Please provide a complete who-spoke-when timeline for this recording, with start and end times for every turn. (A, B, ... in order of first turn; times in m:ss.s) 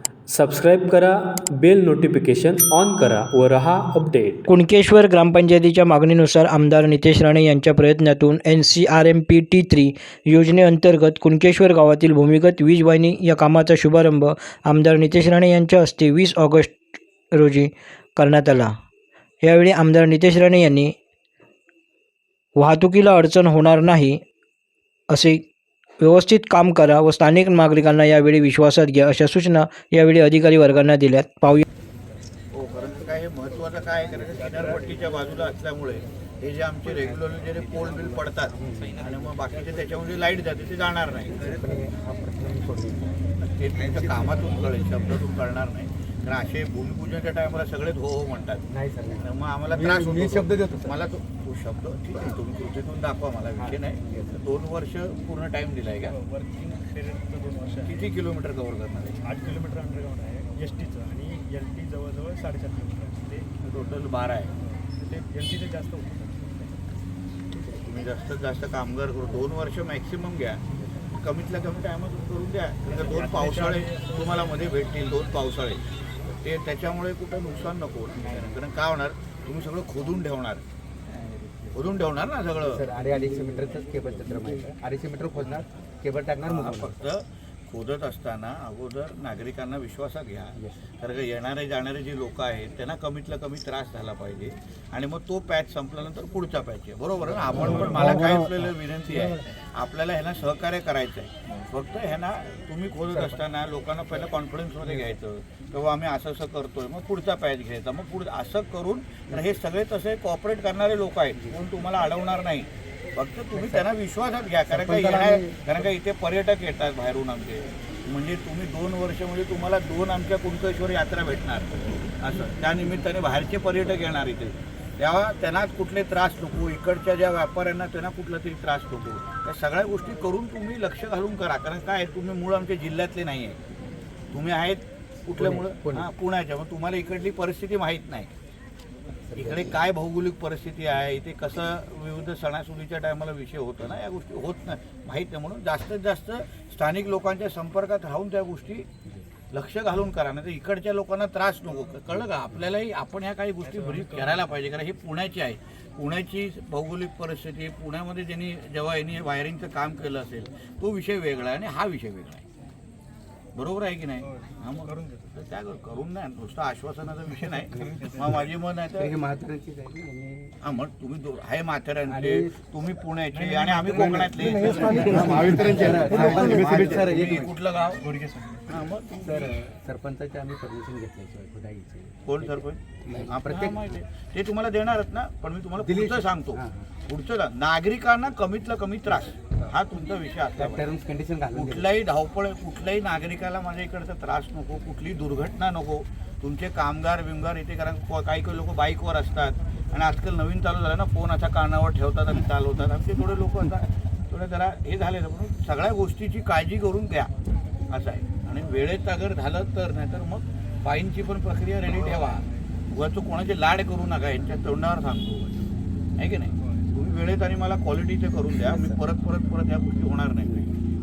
0:00.3-0:04.4 A
0:04.5-0:16.8 B
0:17.4-0:18.7 B
0:19.4-0:20.9 B
0:22.6-0:24.2 B
0:25.1-0:25.4 B
0:26.0-0:31.6 B
0:32.5-0:41.5 C
0:38.6-0:38.9 D
0:41.4-0:43.2 D
0:43.4-0:48.7 C
0:48.7-0:49.2 D
0:49.2-0:56.1 C
0:53.6-0:54.3 D
0:56.0-0:58.0 E
0:57.8-0:59.2 C
0:59.2-1:03.4 E
1:03.6-1:04.5 C
1:04.7-1:06.8 E
1:07.7-1:15.8 C
1:13.0-1:14.6 E
1:16.4-1:20.6 C
1:21.1-1:22.8 C
1:22.6-1:27.0 D
1:26.4-2:13.6 C
1:54.7-1:55.7 D
2:14.3-2:18.3 C
2:15.4-2:16.1 D
2:19.3-2:19.7 D
2:19.4-2:28.9 C
2:29.5-2:42.4 C
2:33.9-2:34.3 E
2:43.5-2:49.2 C
2:44.3-2:45.3 E
2:47.8-2:48.1 D
2:49.0-2:50.5 D
2:50.6-2:58.1 C
2:52.1-2:52.5 D
2:53.4-2:55.6 E
2:54.8-2:57.5 D
2:58.0-2:58.8 E
2:58.7-2:59.6 C
2:59.2-3:02.2 D
3:02.2-3:10.9 C
3:03.0-3:03.9 D
3:05.8-3:06.9 D
3:10.6-3:11.9 D
3:11.5-3:27.3 C
3:27.9-3:35.6 C
3:36.2-3:40.6 C
3:38.7-3:39.0 D